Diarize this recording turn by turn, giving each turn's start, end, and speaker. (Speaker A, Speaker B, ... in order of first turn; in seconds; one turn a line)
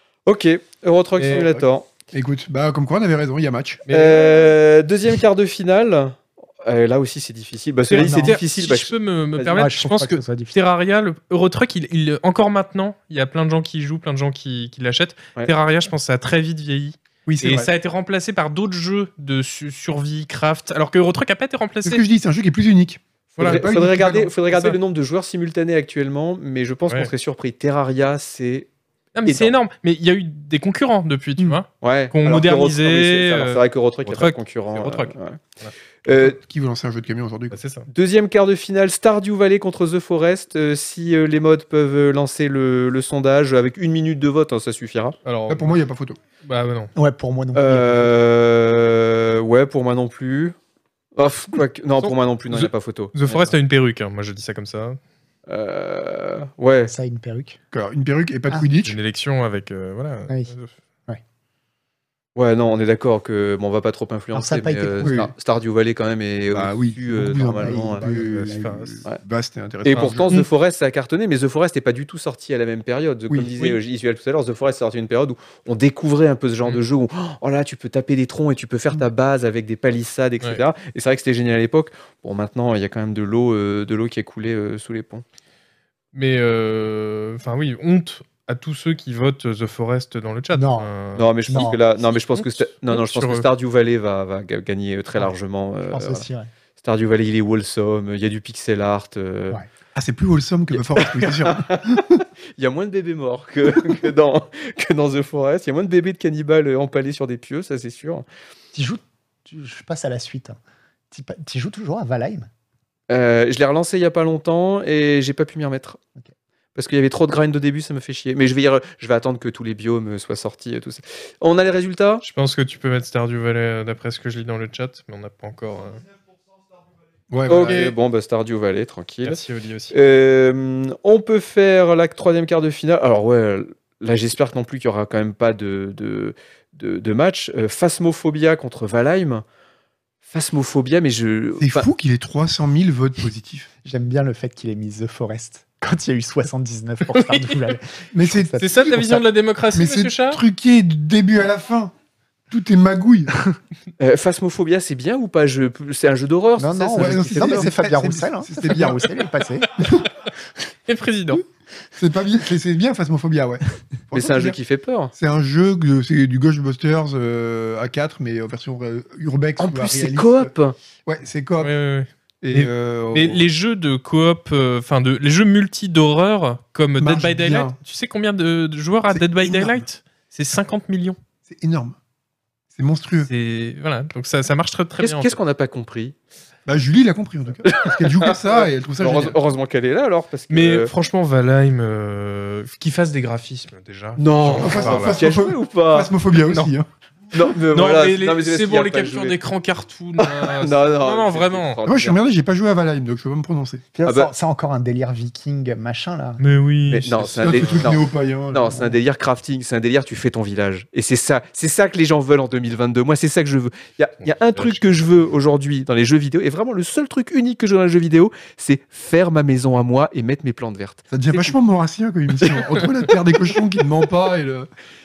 Speaker A: 0.3-1.9
Speaker B: 1.2-1.6
Speaker C: 1.3-1.6
Speaker C: 2.1-3.9
Speaker B: 3.9-4.5
Speaker A: 3.9-9.6
Speaker B: 7.9-22.0
Speaker D: 8.0-8.4
Speaker D: 9.5-10.6
Speaker C: 17.3-17.7
Speaker C: 21.8-24.3
Speaker B: 23.4-23.7
Speaker A: 23.4-28.7
Speaker B: 24.5-24.8
Speaker B: 29.1-35.7
Speaker A: 29.3-29.5
Speaker A: 31.8-35.4
Speaker A: 36.0-36.4
Speaker C: 36.1-37.6
Speaker B: 37.5-37.9
Speaker A: 37.9-45.2
Speaker B: 45.2-45.8
Speaker C: 45.5-46.2
Speaker B: 46.4-46.9
Speaker D: 47.0-48.2
Speaker A: 47.5-50.6
Speaker A: 51.2-53.5
Speaker B: 52.0-55.0
Speaker A: 55.5-56.9
Speaker D: 56.9-57.6
Speaker C: 57.7-59.0
Speaker B: 58.8-60.7
Speaker A: 62.4-68.1
Speaker D: 64.3-65.1
Speaker C: 65.0-65.3
Speaker C: 66.5-70.4
Speaker D: 67.6-68.7
Speaker B: 68.2-69.0
Speaker A: 69.8-85.2
Speaker B: 86.1-91.8
Speaker D: 90.5-90.9
Speaker A: 91.2-96.3
Speaker D: 91.5-91.8
Speaker B: 92.9-93.5
Speaker D: 95.9-96.5
Speaker A: 96.8-99.6
Speaker C: 100.0-102.2
Speaker A: 100.7-102.0
Speaker A: 102.6-108.3
Speaker D: 108.7-110.6
Speaker D: 111.1-112.5
Speaker A: 113.1-116.0
Speaker A: 116.8-122.2
Speaker B: 122.2-126.0
Speaker C: 127.3-127.8
Speaker A: 127.5-129.4
Speaker B: 127.5-127.9
Speaker B: 129.2-129.9
Speaker A: 129.9-139.4
Speaker A: 140.3-141.9
Speaker C: 141.6-143.7
Speaker D: 143.8-149.2
Speaker B: 147.1-147.8
Speaker C: 148.1-148.6
Speaker B: 148.6-150.4
Speaker C: 149.7-151.9
Speaker C: 152.5-153.6
Speaker A: 154.0-157.7
Speaker D: 156.6-159.8
Speaker C: 157.0-159.1
Speaker B: 159.8-160.3
Speaker B: 160.9-161.4
Speaker C: 161.9-164.6
Speaker A: 164.1-165.1
Speaker C: 165.2-170.5
Speaker A: 169.6-170.8
Speaker C: 171.1-171.7
Speaker B: 171.6-181.2
Speaker C: 172.4-173.4
Speaker C: 177.0-177.8
Speaker C: 179.1-179.9
Speaker C: 181.5-182.0
Speaker C: 182.7-183.3
Speaker B: 183.2-185.3
Speaker A: 185.0-186.2
Speaker C: 186.7-189.4
Speaker A: 187.7-190.9
Speaker B: 190.5-195.2
Speaker A: 194.2-196.1
Speaker C: 194.5-196.9
Speaker B: 196.5-196.7
Speaker A: 197.3-199.4
Speaker B: 197.6-201.8
Speaker A: 200.2-202.2
Speaker C: 201.8-203.8
Speaker D: 203.9-206.4
Speaker A: 204.1-204.3
Speaker B: 206.4-207.9
Speaker A: 206.9-221.6
Speaker C: 207.2-208.9
Speaker B: 214.6-214.9
Speaker C: 221.1-224.7
Speaker A: 222.4-222.7